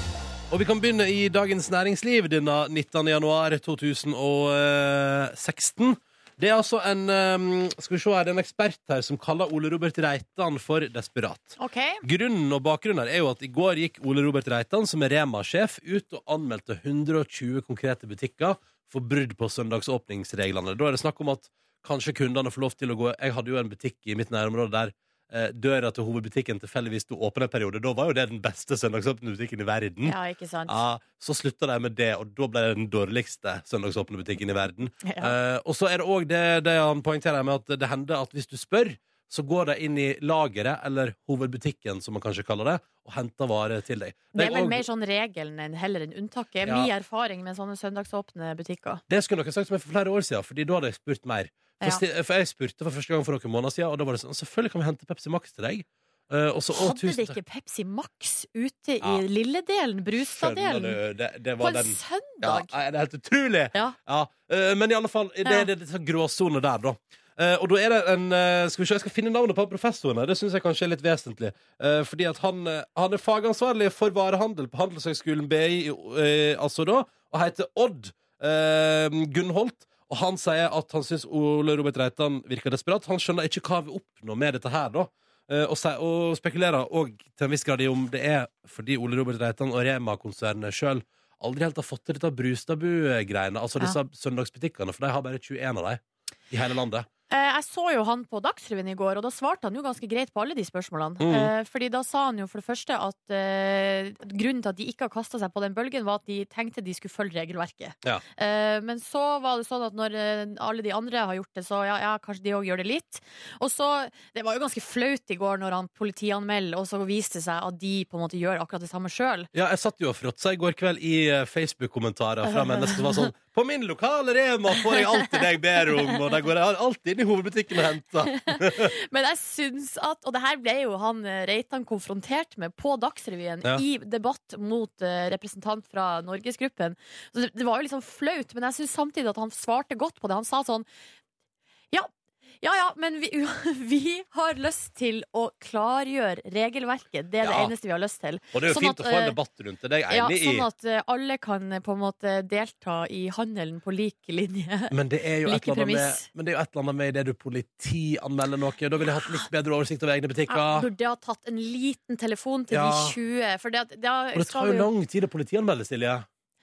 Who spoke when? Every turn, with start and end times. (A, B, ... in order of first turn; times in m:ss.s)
0:00.5-0:30.2 A
0:11.6-0:12.0 B
0:30.0-0:30.8 B
0:30.7-0:44.9 A
0:35.0-0:35.4 B
0:44.3-0:49.0 B
0:46.6-0:46.9 A
0:49.1-0:57.4 A
0:56.7-1:01.0 B
1:00.2-1:37.1 A
1:01.6-1:02.7 B
1:37.3-1:59.5 B
1:41.2-1:41.5 A
1:59.5-2:08.9 A
2:02.5-2:03.3 B
2:08.5-2:20.9 B
2:21.9-2:29.4 B
2:27.4-2:27.7 A
2:28.5-2:30.7 A
2:30.1-2:34.9 B
2:34.9-2:40.9 A
2:35.4-2:36.3 B
2:40.5-2:44.9 B
2:42.7-2:43.2 A
2:44.3-2:46.3 A